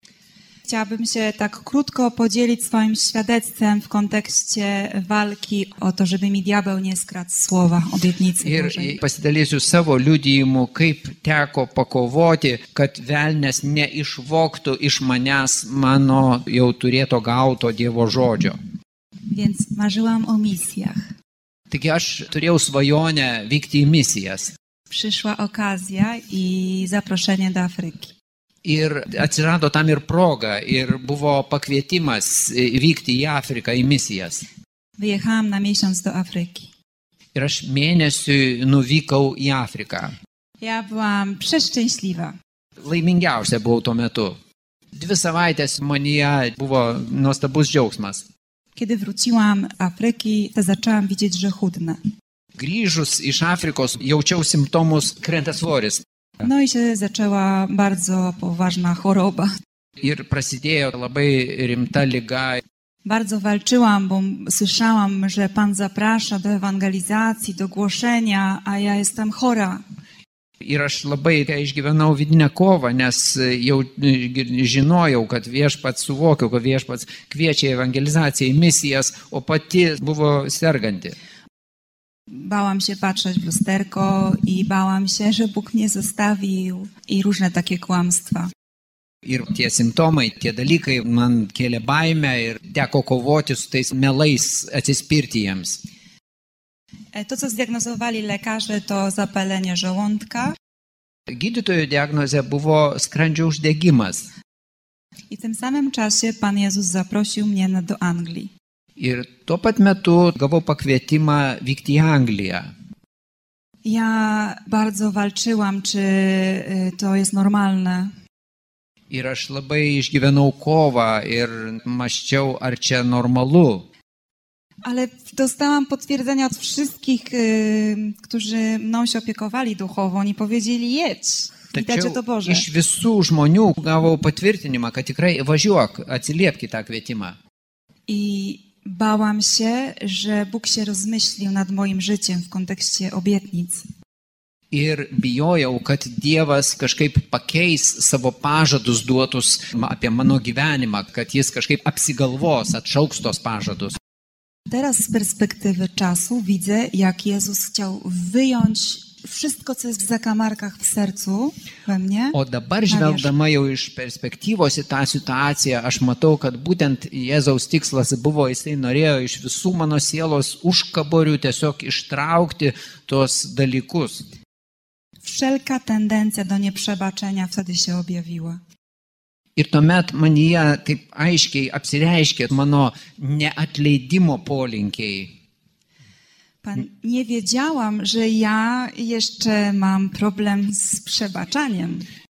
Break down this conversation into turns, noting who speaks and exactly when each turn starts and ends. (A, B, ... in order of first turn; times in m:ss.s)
0:00.7-0:09.0 A
0:08.4-0:18.6 B
0:19.3-0:21.0 A
0:21.7-0:24.5 B
0:24.9-0:28.1 A
0:28.6-0:34.5 B
0:35.0-0:36.7 A
0:37.4-0:40.2 B
0:40.6-0:42.3 A
0:42.8-0:44.4 B
0:45.0-0:48.3 B
0:48.8-0:52.0 A
0:52.6-0:56.0 B
0:56.4-0:59.5 A
1:00.0-1:02.6 B
1:03.0-1:09.8 A
1:10.6-1:21.2 B
1:22.3-1:28.5 A
1:29.2-1:35.8 B
1:37.1-1:40.6 A
1:41.3-1:44.3 B
1:45.3-1:48.5 A
1:49.0-1:52.7 B
1:53.8-1:58.1 A
1:59.1-2:03.9 B
2:04.8-2:12.7 A
2:11.7-2:17.4 B
2:18.1-2:23.9 A
2:24.7-2:34.0 B
2:34.7-2:42.4 A
2:42.3-2:54.3 B
2:42.9-2:43.3 A
2:55.2-2:58.6 A
2:59.6-3:05.3 B
3:06.6-3:12.1 A